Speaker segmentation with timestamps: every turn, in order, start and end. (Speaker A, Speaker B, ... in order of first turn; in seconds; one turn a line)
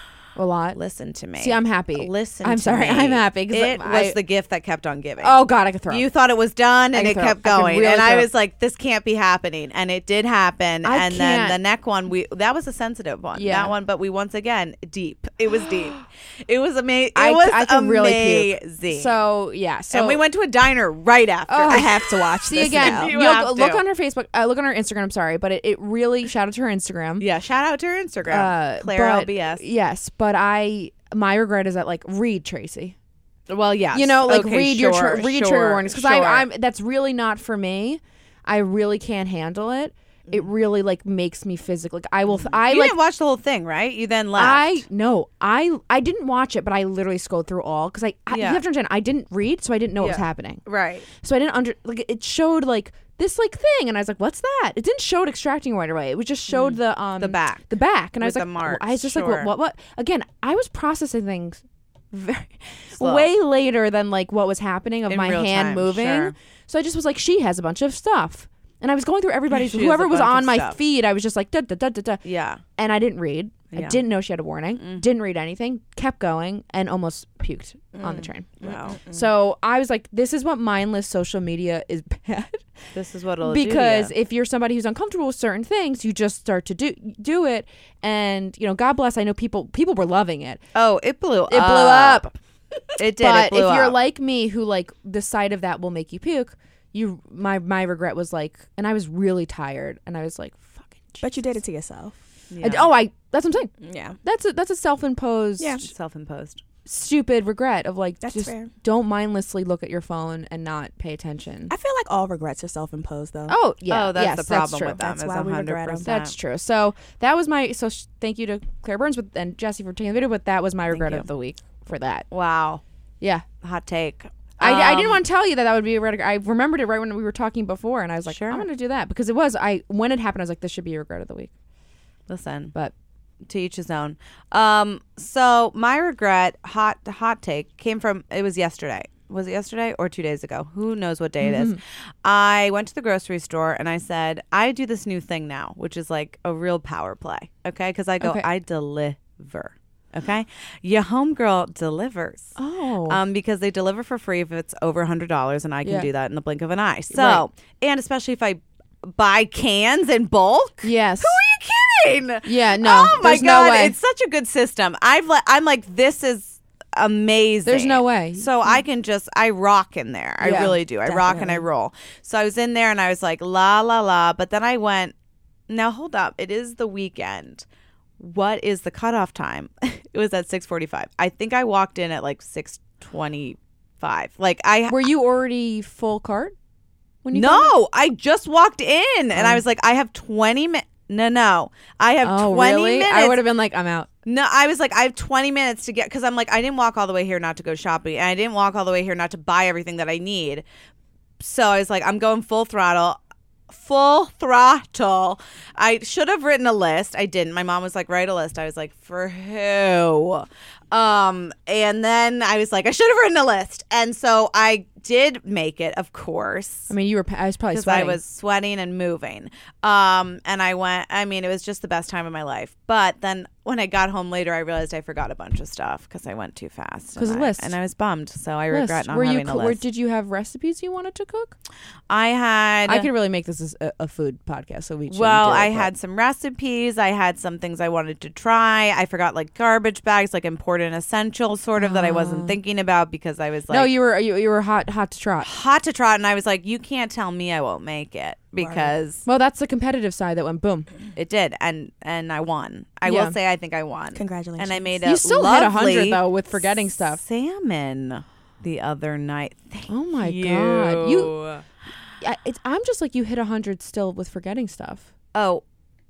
Speaker A: 0.4-0.8
Speaker B: 0.8-19.2
Speaker A: 1.4-4.2
Speaker A: 5.2-6.0
Speaker A: 6.9-8.3
Speaker A: 10.8-11.6
Speaker A: 13.3-13.7
Speaker A: 17.1-20.2
Speaker B: 19.9-21.9
Speaker A: 21.5-21.9
Speaker C: 21.7-23.1
Speaker A: 22.4-27.2
Speaker B: 22.6-23.8
Speaker B: 27.2-29.6
Speaker A: 28.3-33.0
Speaker B: 33.5-36.5
Speaker A: 33.9-43.0
Speaker B: 42.3-44.8
Speaker A: 44.4-72.2
Speaker B: 48.3-48.6
Speaker B: 50.0-51.1
Speaker B: 56.5-57.7
Speaker B: 58.2-59.5
Speaker B: 63.0-63.3
Speaker B: 65.1-66.3
Speaker B: 69.5-70.8
Speaker B: 72.2-72.6
Speaker A: 72.8-82.7
Speaker B: 73.7-74.0
Speaker B: 74.8-75.0
Speaker B: 78.0-79.2
Speaker B: 82.9-84.1
Speaker A: 83.4-90.6
Speaker B: 90.7-92.3
Speaker A: 91.5-92.3
Speaker B: 93.0-94.0
Speaker A: 93.1-101.2
Speaker C: 101.2-102.2
Speaker B: 102.5-102.9
Speaker A: 102.6-103.7
Speaker C: 103.8-104.2
Speaker A: 104.2-105.9
Speaker B: 105.8-106.6
Speaker A: 106.8-111.7
Speaker C: 108.2-108.7
Speaker C: 111.7-113.6
Speaker A: 113.5-115.1
Speaker B: 113.9-116.3
Speaker C: 115.0-116.1
Speaker A: 116.0-122.2
Speaker B: 120.9-121.2
Speaker B: 122.3-122.8
Speaker B: 123.6-125.2
Speaker A: 124.6-131.5
Speaker B: 128.3-128.7
Speaker B: 132.3-132.7
Speaker B: 133.5-152.6
Speaker A: 141.4-141.8
Speaker A: 152.6-153.2
Speaker B: 153.1-175.1
Speaker A: 157.1-157.4
Speaker A: 160.8-161.4
Speaker A: 162.4-163.9
Speaker A: 167.7-168.8
Speaker C: 170.4-171.6
Speaker A: 170.4-170.8
Speaker B: 175.7-177.7
Speaker B: 178.2-185.1
Speaker A: 184.9-186.6
Speaker A: 187.2-187.7
Speaker B: 187.3-193.4
Speaker A: 189.3-189.6
Speaker A: 192.2-194.1
Speaker B: 194.2-200.6
Speaker B: 201.4-216.9
Speaker A: 216.9-218.2
Speaker B: 217.7-229.8
Speaker A: 227.2-227.7
Speaker A: 228.7-231.6
Speaker B: 232.1-233.1
Speaker A: 232.9-235.9
Speaker B: 235.1-243.9
Speaker A: 241.8-242.6
Speaker A: 243.7-245.5
Speaker B: 245.4-249.2
Speaker C: 248.6-249.0
Speaker A: 249.2-250.9
Speaker B: 251.1-256.2
Speaker A: 253.1-253.3
Speaker C: 254.1-255.0
Speaker A: 255.0-257.2
Speaker B: 257.0-261.6
Speaker A: 259.9-261.3
Speaker A: 262.2-265.1
Speaker B: 265.4-265.6